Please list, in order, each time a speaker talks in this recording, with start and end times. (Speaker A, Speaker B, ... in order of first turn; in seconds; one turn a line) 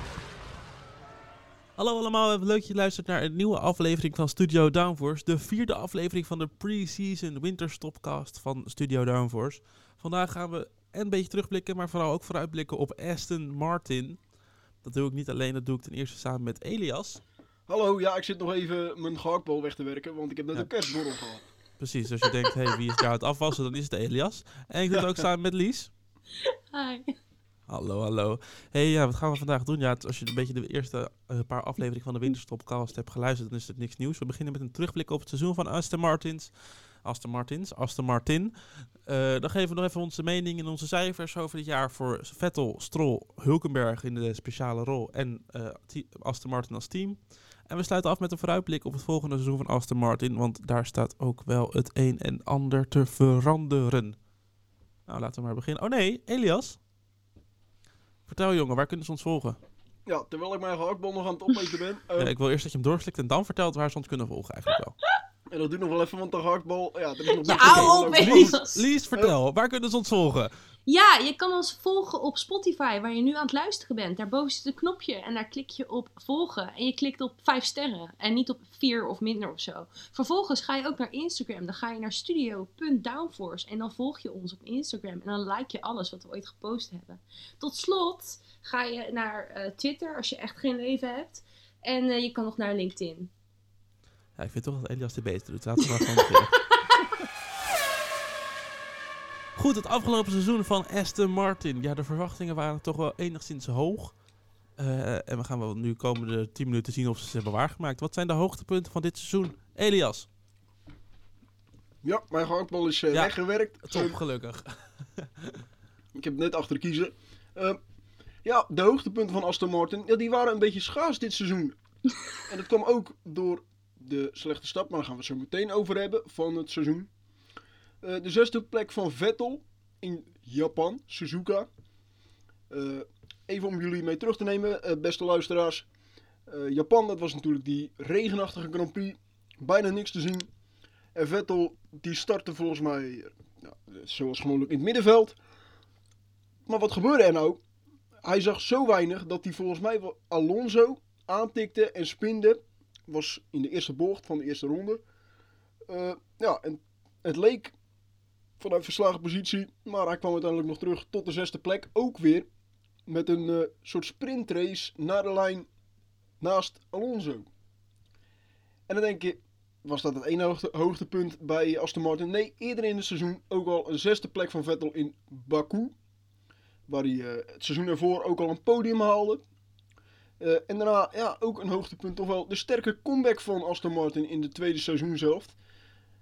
Speaker A: 1.8-14.2
Speaker A: 14.8-17.2
Speaker B: 17.7-21.4
Speaker A: 21.8-25.9
Speaker B: 24.9-25.2
Speaker C: 26.4-27.1
Speaker A: 27.7-54.2
Speaker A: 55.1-56.8
Speaker A: 58.3-59.6
Speaker B: 60.1-62.3
Speaker A: 62.2-65.0
Speaker B: 65.5-68.6
Speaker C: 67.3-68.8
Speaker A: 67.5-70.5
Speaker C: 70.9-93.3
Speaker A: 94.4-96.6
Speaker C: 96.8-97.1
Speaker A: 99.6-104.2
Speaker A: 104.8-110.3
Speaker B: 112.0-114.2
Speaker A: 113.1-115.6
Speaker B: 116.2-117.8
Speaker B: 118.5-121.8
Speaker B: 122.5-127.1
Speaker B: 128.0-131.7
Speaker B: 132.7-135.9
Speaker B: 136.5-140.5
Speaker B: 141.2-145.4
Speaker B: 146.7-147.6
Speaker B: 148.2-155.0
Speaker B: 155.9-157.8
Speaker B: 158.6-162.5
Speaker B: 163.1-165.7
Speaker B: 166.4-167.5
Speaker B: 168.9-175.9
Speaker B: 176.9-179.4
Speaker B: 180.4-185.6